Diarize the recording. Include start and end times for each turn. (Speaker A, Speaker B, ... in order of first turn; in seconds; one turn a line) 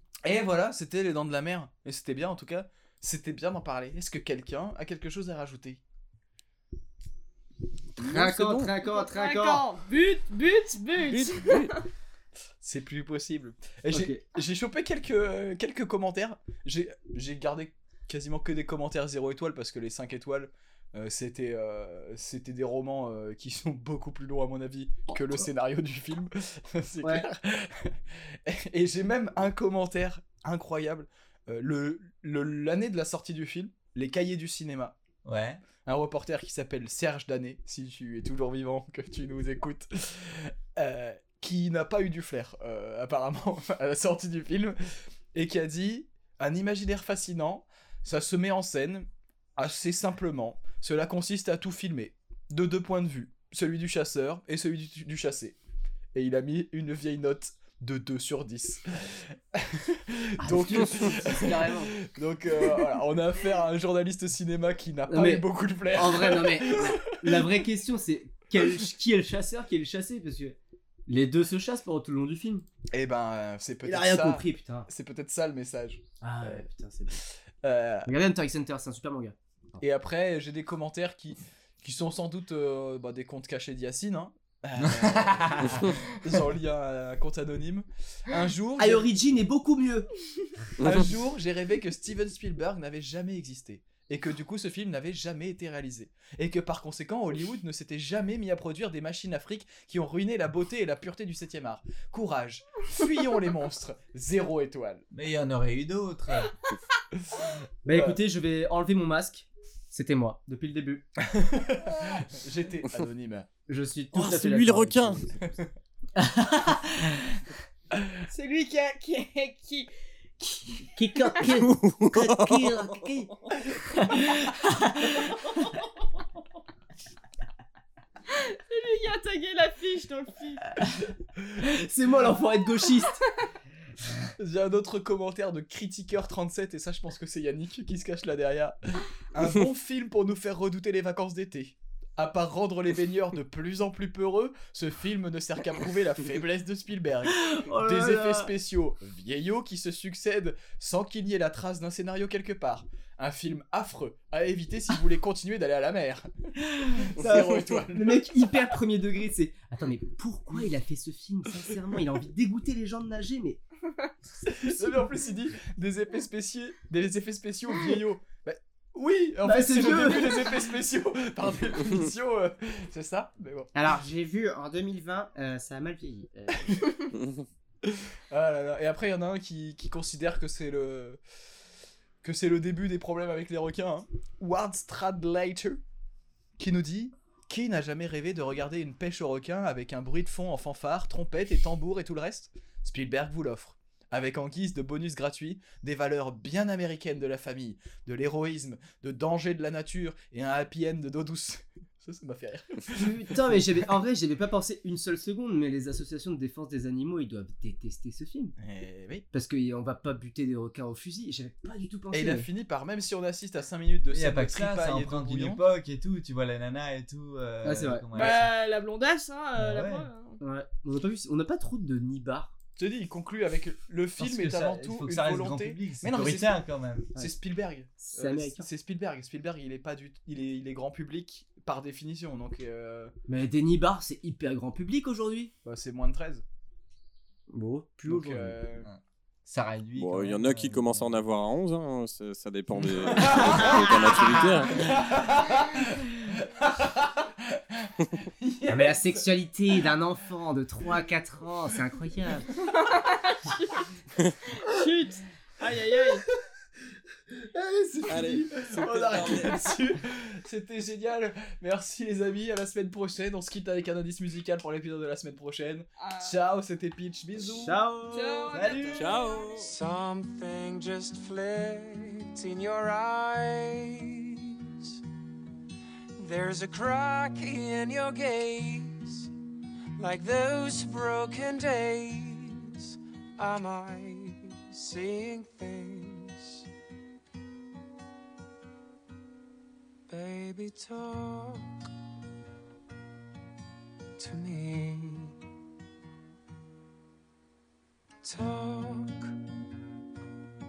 Speaker A: 0.2-5.8
Speaker B: 8.0-8.7
Speaker C: 8.0-9.7
Speaker D: 8.7-11.8
Speaker B: 11.1-11.7
Speaker A: 12.6-35.0
Speaker C: 13.9-14.2
Speaker C: 27.0-27.3
Speaker E: 35.2-35.6
Speaker A: 35.8-44.8
Speaker A: 45.3-55.6
Speaker A: 56.1-67.5
Speaker C: 60.4-61.9
Speaker C: 62.6-62.8
Speaker C: 65.1-72.7
Speaker A: 72.9-76.6
Speaker C: 73.8-74.9
Speaker C: 76.2-77.2
Speaker A: 77.6-78.1
Speaker C: 78.0-79.8
Speaker A: 79.8-89.1
Speaker E: 84.8-85.9
Speaker C: 88.8-90.1
Speaker A: 90.8-105.0
Speaker E: 105.1-106.5
Speaker C: 107.8-111.1
Speaker A: 107.9-108.2
Speaker A: 111.3-113.5
Speaker C: 113.7-115.4
Speaker B: 114.1-115.2
Speaker A: 115.4-115.7
Speaker C: 116.2-117.3
Speaker D: 118.3-121.5
Speaker C: 120.9-123.3
Speaker B: 121.6-123.0
Speaker C: 123.8-125.6
Speaker D: 128.3-130.6
Speaker C: 131.6-133.2
Speaker D: 133.1-133.3
Speaker A: 134.4-156.3
Speaker C: 147.3-148.5
Speaker C: 156.6-163.6
Speaker A: 157.0-158.7
Speaker A: 164.4-173.7
Speaker C: 164.7-165.0
Speaker C: 169.4-170.4
Speaker C: 173.7-176.7
Speaker A: 176.7-176.9
Speaker A: 177.8-181.2
Speaker A: 182.2-185.8
Speaker A: 186.6-203.6
Speaker C: 202.9-208.5
Speaker A: 208.6-209.2
Speaker C: 209.3-212.5
Speaker A: 212.1-215.6
Speaker E: 214.1-218.5
Speaker C: 217.6-218.1
Speaker D: 218.1-220.4
Speaker E: 219.5-220.1
Speaker C: 220.4-222.5
Speaker A: 222.8-233.1
Speaker E: 224.2-227.1
Speaker C: 228.0-228.7
Speaker C: 233.3-235.5
Speaker A: 235.6-236.4
Speaker C: 237.5-238.6
Speaker A: 238.1-238.9
Speaker E: 238.8-241.2
Speaker B: 240.0-245.0
Speaker A: 242.8-249.8
Speaker E: 243.1-244.4
Speaker C: 243.3-244.0
Speaker C: 248.7-252.5
Speaker D: 252.8-253.8
Speaker D: 254.5-256.2
Speaker A: 257.5-267.8
Speaker B: 258.1-259.7
Speaker D: 266.0-266.4
Speaker C: 267.4-269.0
Speaker D: 268.1-269.7
Speaker E: 268.5-268.9
Speaker B: 269.0-269.7
Speaker F: 269.5-274.9
Speaker F: 276.2-279.3
Speaker F: 280.0-286.6
Speaker F: 290.1-291.7
Speaker F: 294.2-295.4
Speaker F: 298.2-299.3